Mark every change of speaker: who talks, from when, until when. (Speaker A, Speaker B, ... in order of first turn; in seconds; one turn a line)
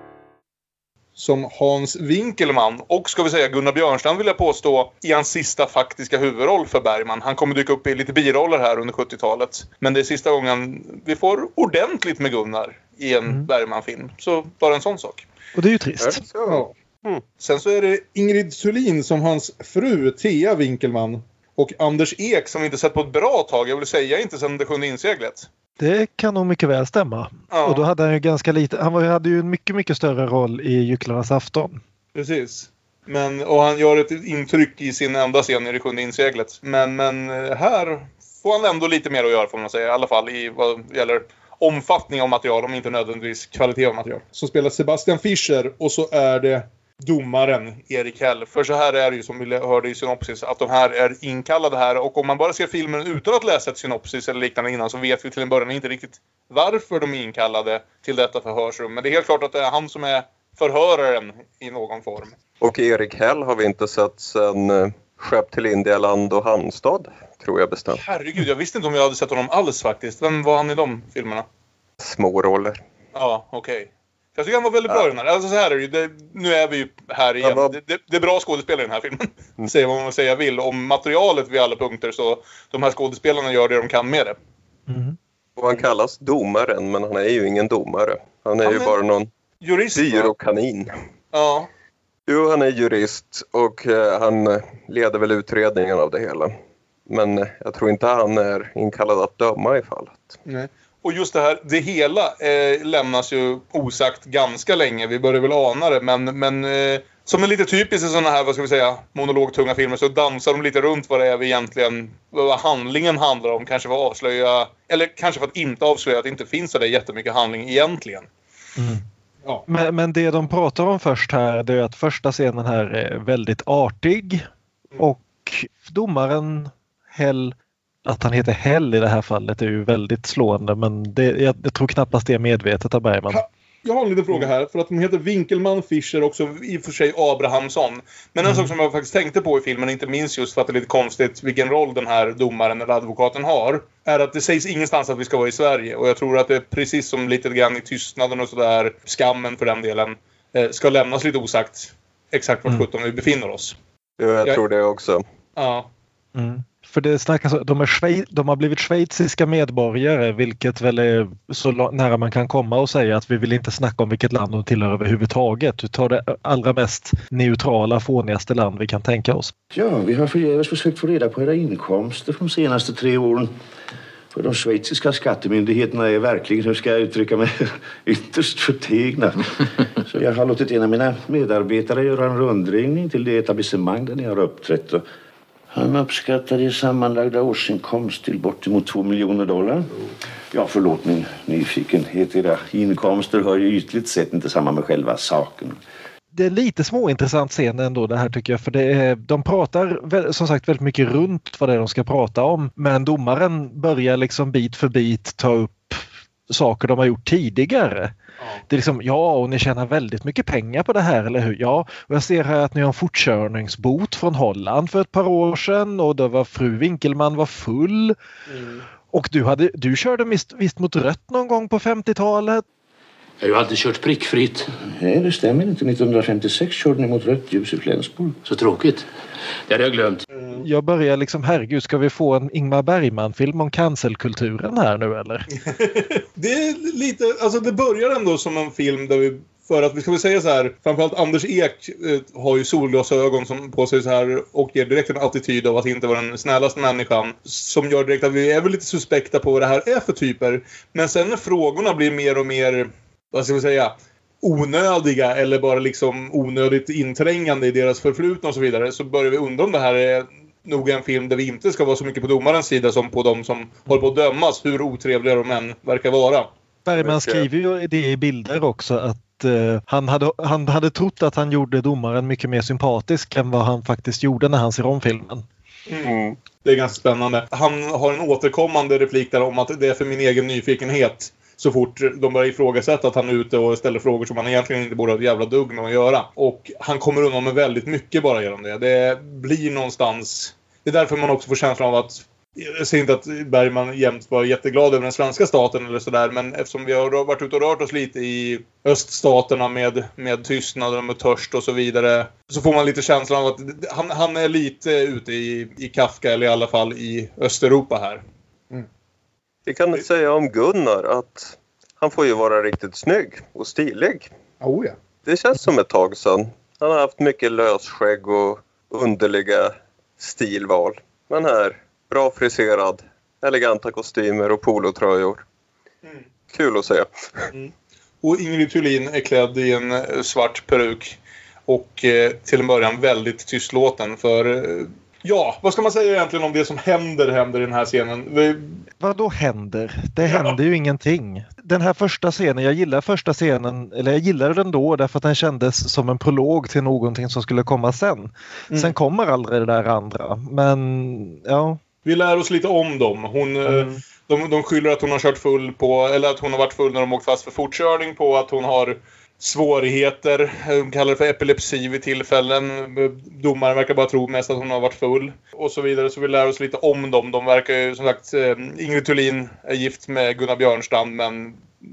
Speaker A: 1.2-15.3
Speaker B: 15.6-16.2
Speaker C: 16.0-17.2
Speaker A: 16.5-16.7
Speaker A: 17.4-25.5
Speaker B: 25.8-31.8
Speaker A: 27.5-27.9
Speaker A: 32.1-62.3
Speaker C: 62.6-68.0
Speaker A: 68.0-71.5
Speaker C: 72.0-72.8
Speaker A: 73.1-84.4
Speaker C: 77.4-77.7
Speaker B: 84.9-85.2
Speaker C: 85.6-89.3
Speaker A: 88.6-89.0
Speaker A: 89.6-90.3
Speaker C: 90.0-90.9
Speaker A: 91.3-91.7
Speaker C: 92.3-96.5
Speaker C: 97.1-100.4
Speaker A: 100.5-118.3
Speaker B: 118.8-119.0
Speaker B: 119.7-124.5
Speaker B: 125.0-133.4
Speaker A: 133.3-153.8
Speaker B: 138.4-138.7
Speaker C: 154.2-155.2
Speaker A: 155.6-155.9
Speaker B: 156.3-169.5
Speaker D: 169.7-173.6
Speaker D: 174.3-185.1
Speaker D: 185.7-189.9
Speaker D: 190.5-195.8
Speaker B: 196.3-208.1
Speaker B: 208.7-218.2
Speaker A: 218.5-218.8
Speaker B: 219.1-222.6
Speaker E: 223.4-224.7
Speaker D: 224.9-228.4
Speaker E: 228.4-229.1
Speaker E: 229.7-230.2
Speaker A: 230.3-230.6
Speaker B: 230.5-235.5
Speaker A: 235.7-266.5
Speaker B: 266.9-275.4
Speaker C: 267.0-267.5
Speaker C: 276.0-276.4
Speaker A: 276.6-308.9
Speaker C: 309.7-314.3
Speaker A: 314.6-315.0
Speaker C: 315.3-325.4
Speaker C: 326.5-327.5
Speaker A: 327.5-338.8
Speaker B: 339.0-351.8
Speaker A: 340.2-340.6
Speaker A: 348.7-348.9
Speaker A: 352.1-371.6
Speaker B: 353.6-354.0